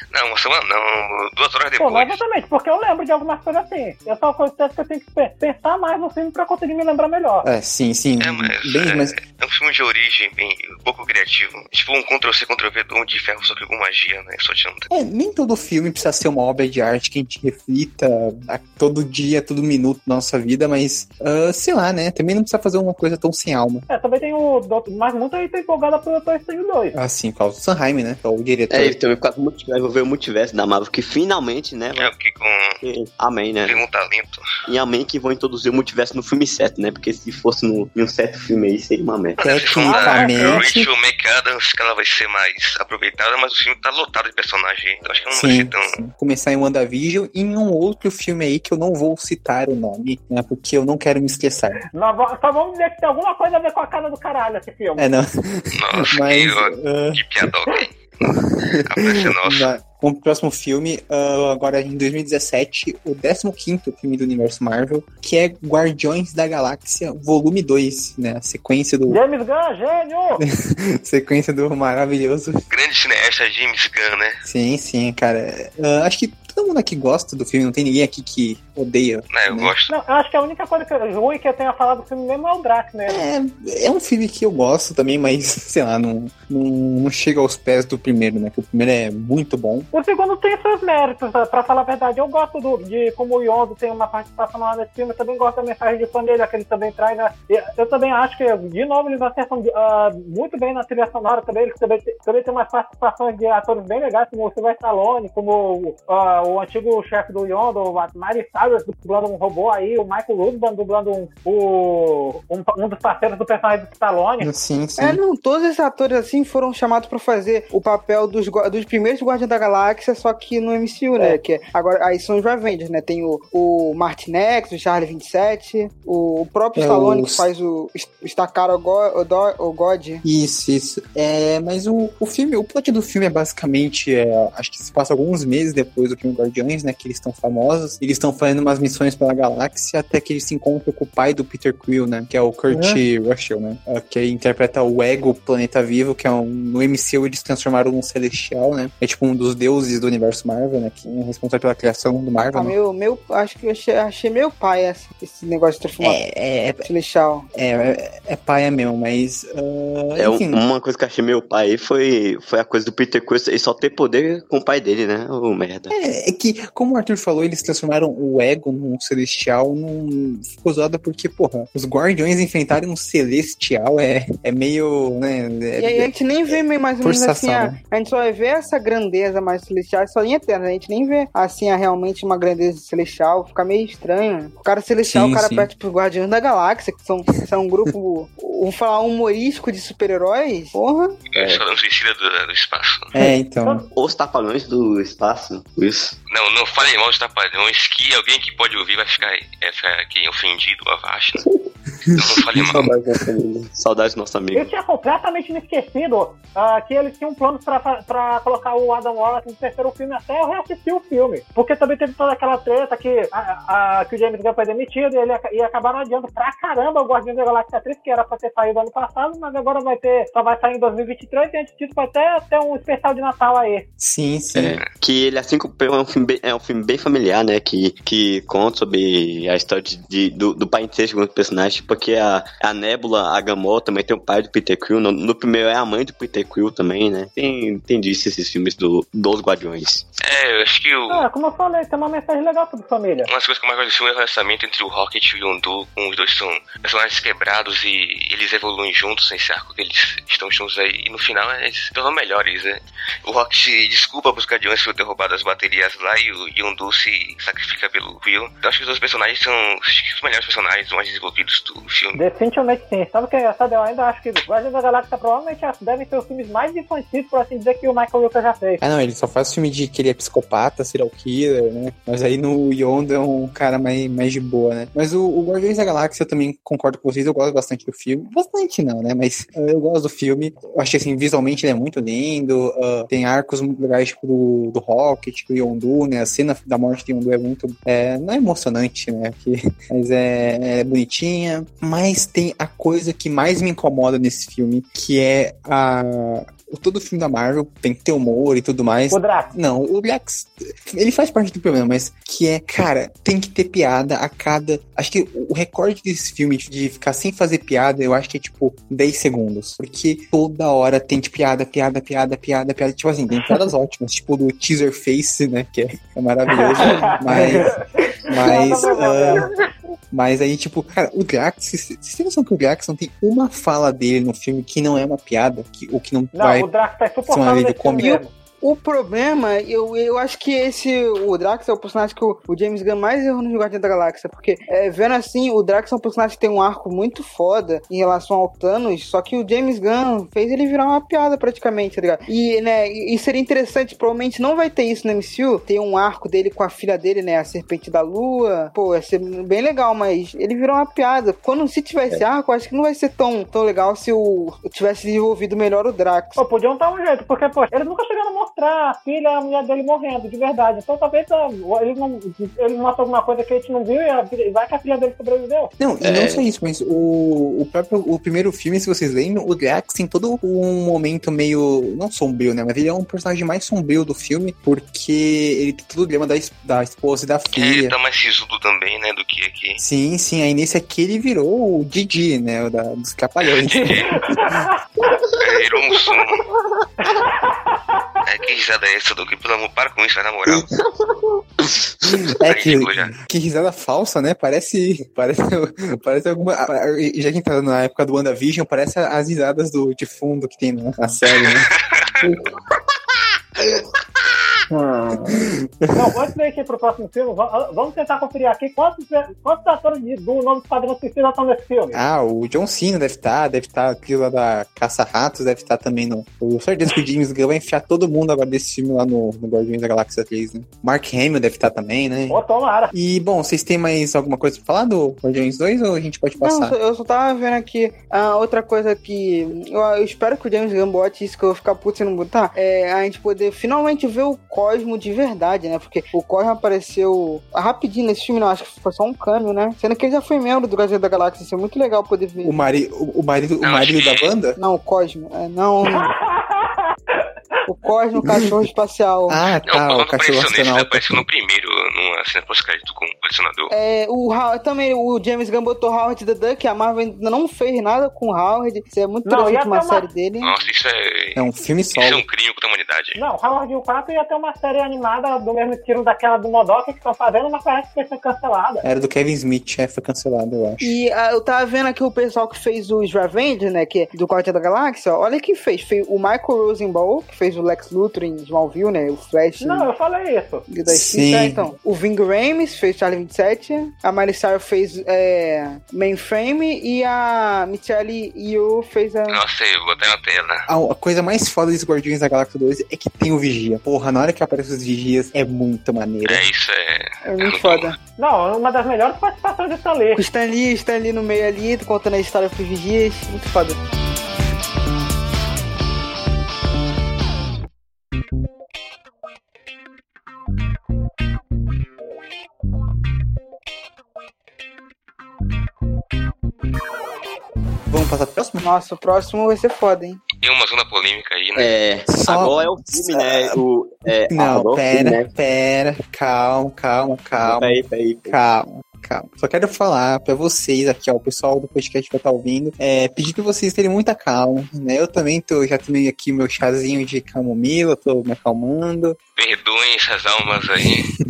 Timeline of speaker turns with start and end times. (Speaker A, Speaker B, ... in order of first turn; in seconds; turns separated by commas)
Speaker A: 0.1-2.2, Speaker B: 1.8-7.5, Speaker C: 7.4-9.2, Speaker A: 8.2-14.9, Speaker C: 14.9-23.9, Speaker B: 23.9-27.0, Speaker C: 26.9-29.0, Speaker D: 28.7-32.1, Speaker A: 32.0-32.8, Speaker D: 32.8-33.8, Speaker A: 33.7-34.5, Speaker D: 34.7-39.4, Speaker C: 39.4-40.9, Speaker A: 39.4-46.0, Speaker B: 39.8-40.7, Speaker C: 45.3-51.8, Speaker B: 51.9-55.1, Speaker C: 55.0-57.2, Speaker A: 55.7-59.7, Speaker C: 58.2-69.2, Speaker B: 69.1-70.4, Speaker C: 70.4-72.6, Speaker A: 72.7-74.4, Speaker C: 74.4-79.7, Speaker A: 79.3-79.9, Speaker B: 79.9-83.2, Speaker C: 83.1-89.9, Speaker B: 89.9-114.5, Speaker C: 114.4-115.2, Speaker E: 115.0-130.2, Speaker C: 126.8-127.5, Speaker C: 130.2-152.8, Speaker E: 152.5-156.2, Speaker C: 156.0-156.8, Speaker E: 156.8-157.5, Speaker C: 157.5-160.6, Speaker D: 160.2-165.9, Speaker C: 165.9-177.8, Speaker E: 175.8-191.2, Speaker C: 185.0-185.7, Speaker A: 191.3-193.1, Speaker D: 191.4-191.6, Speaker C: 193.1-193.8, Speaker D: 193.9-196.2, Speaker A: 196.3-201.4, Speaker D: 202.1-204.7, Speaker A: 202.2-202.9, Speaker B: 204.5-223.8, Speaker C: 224.0-224.8, Speaker D: 224.5-240.1, Speaker A: 240.2-241.2, Speaker B: 241.1-243.3, Speaker A: 243.3-262.2, Speaker B: 262.1-268.8, Speaker C: 268.8-317.7, Speaker B: 299.1-299.5, Speaker B: 316.5-319.6, Speaker C: 318.3-319.5, Speaker E: 318.5-318.8, Speaker C: 320.1-326.7, Speaker B: 326.3-328.3, Speaker C: 327.3-328.2, Speaker E: 328.6-356.4, Speaker B: 356.4-365.7, Speaker C: 365.8-377.9, Speaker D: 366.0-366.4, Speaker A: 377.5-379.8, Speaker C: 379.8-384.0, Speaker A: 383.4-384.2, Speaker B: 384.2-384.8, Speaker A: 385.3-386.5, Speaker B: 387.0-388.0, Speaker A: 388.2-390.7, Speaker D: 390.7-392.2, Speaker C: 392.4-402.4, Speaker A: 392.4-393.1, Speaker A: 401.2-402.3, Speaker B: 404.7-405.3, Speaker C: 405.1-406.0, Speaker B: 405.9-412.0, Speaker C: 411.9-422.4, Speaker B: 422.3-422.9, Speaker C: 422.9-426.8, Speaker E: 426.4-442.6, Speaker C: 442.4-444.6, Speaker A: 443.6-444.3, Speaker E: 444.6-446.1, Speaker B: 445.9-447.6, Speaker E: 447.6-449.4, Speaker C: 449.3-451.2, Speaker A: 449.7-453.7, Speaker E: 453.7-460.5, Speaker B: 459.2-460.0, Speaker A: 460.4-463.2, Speaker C: 461.4-462.2, Speaker B: 463.1-468.9, Speaker C: 468.8-470.9, Speaker E: 470.8-479.9, Speaker B: 479.6-480.6, Speaker E: 480.7-489.4, Speaker C: 480.9-481.7, Speaker A: 489.3-490.7, Speaker C: 490.7-496.4, Speaker A: 496.2-497.9, Speaker E: 497.2-498.0, Speaker B: 498.2-500.2, Speaker E: 500.1-503.8, Speaker C: 517.9-518.7, Speaker E: 518.6-520.2, Speaker A: 520.4-521.7, Speaker D: 521.5-525.3, Speaker C: 522.1-523.6, Speaker C: 524.2-539.2, Speaker D: 527.4-528.4, Speaker A: 539.4-541.1